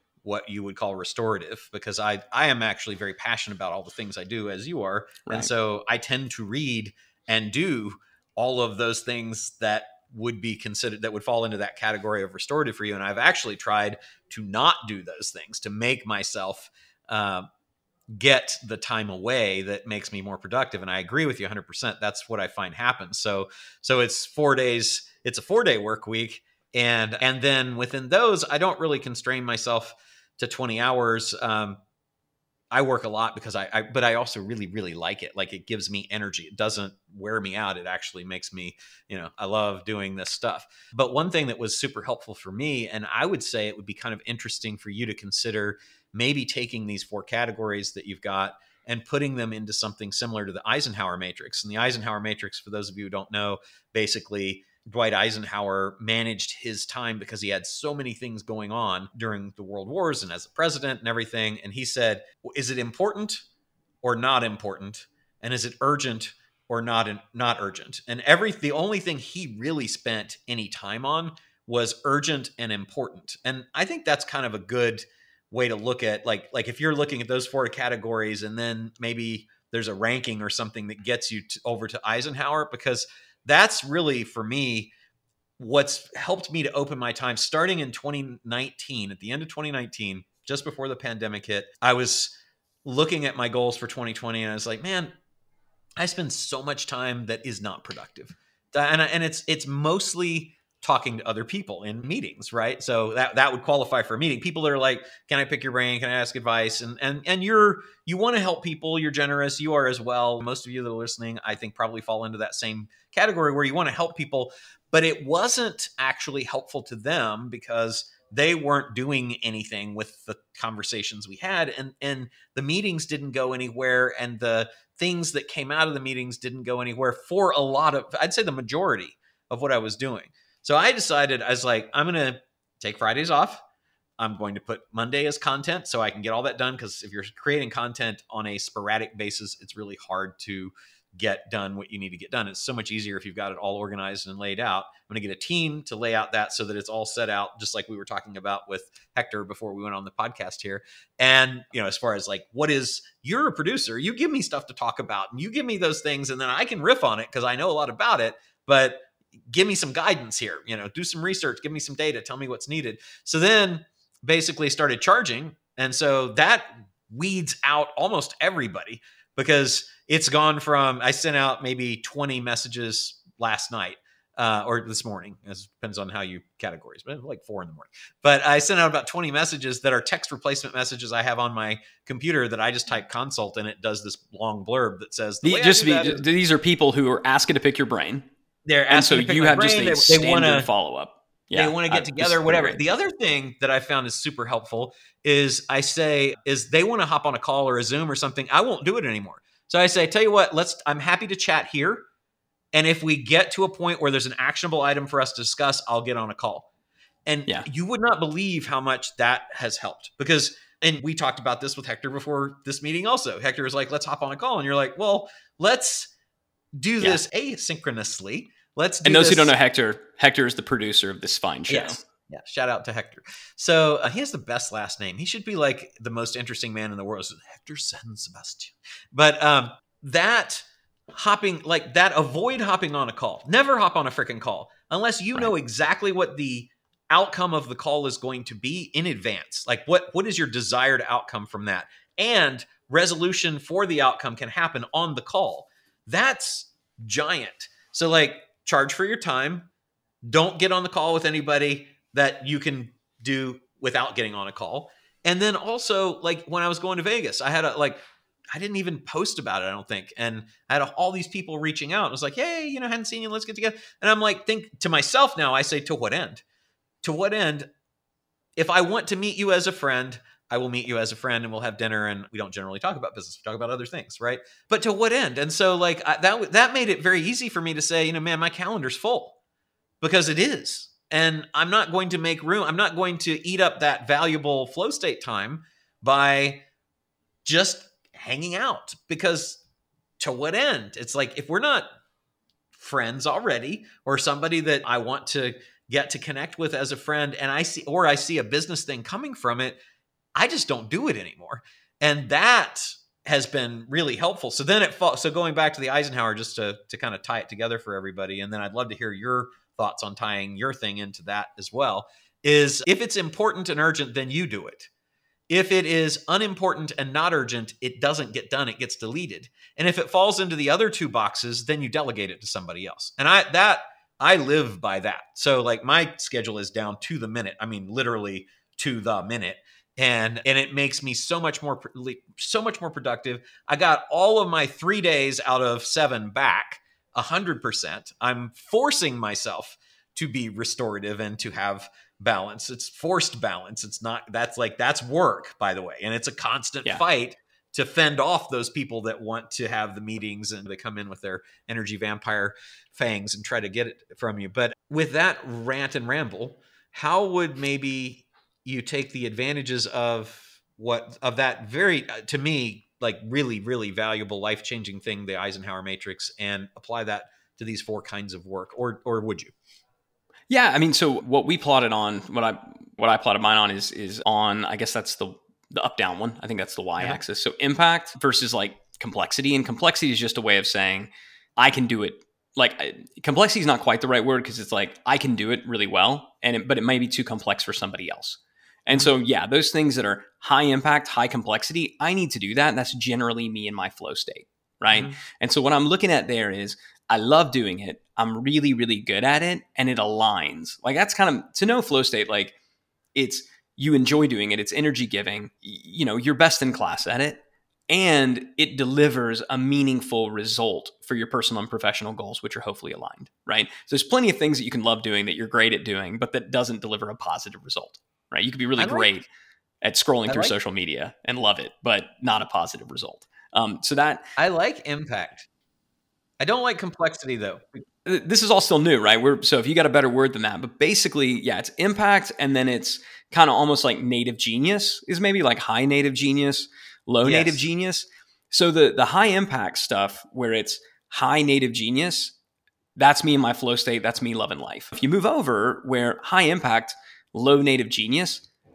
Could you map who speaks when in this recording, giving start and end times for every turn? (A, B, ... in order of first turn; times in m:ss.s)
0:00.2-0:17.5 A
0:18.1-0:31.8 A
0:32.7-1:03.4 A
1:04.0-1:24.9 A
1:25.6-1:35.1 A
1:36.0-2:13.6 A
2:14.2-3:06.2 A
3:05.4-3:08.3 B
3:08.6-3:10.7 A
3:08.9-3:12.8 B
3:11.5-3:22.0 A
3:22.7-3:26.7 A
3:27.2-3:36.1 A
3:36.7-3:39.5 A
3:39.0-3:42.0 B
3:41.7-4:09.7 A
4:10.2-4:26.4 A
4:27.0-4:27.7 A
4:28.6-4:39.4 A
4:40.0-4:46.6 A
4:47.4-4:49.6 A
4:50.2-4:51.9 A
4:52.7-4:59.8 A
5:00.3-5:14.9 A
5:15.5-6:09.5 A
6:10.5-6:42.5 B
6:34.9-6:35.2 A
6:43.1-6:59.3 B
6:58.8-6:59.1 A
6:59.8-7:04.2 B
7:00.3-7:00.5 A
7:04.4-7:05.4 A
7:06.4-7:07.8 A
7:08.0-7:22.3 B
7:17.2-7:17.6 A
7:23.0-7:28.4 B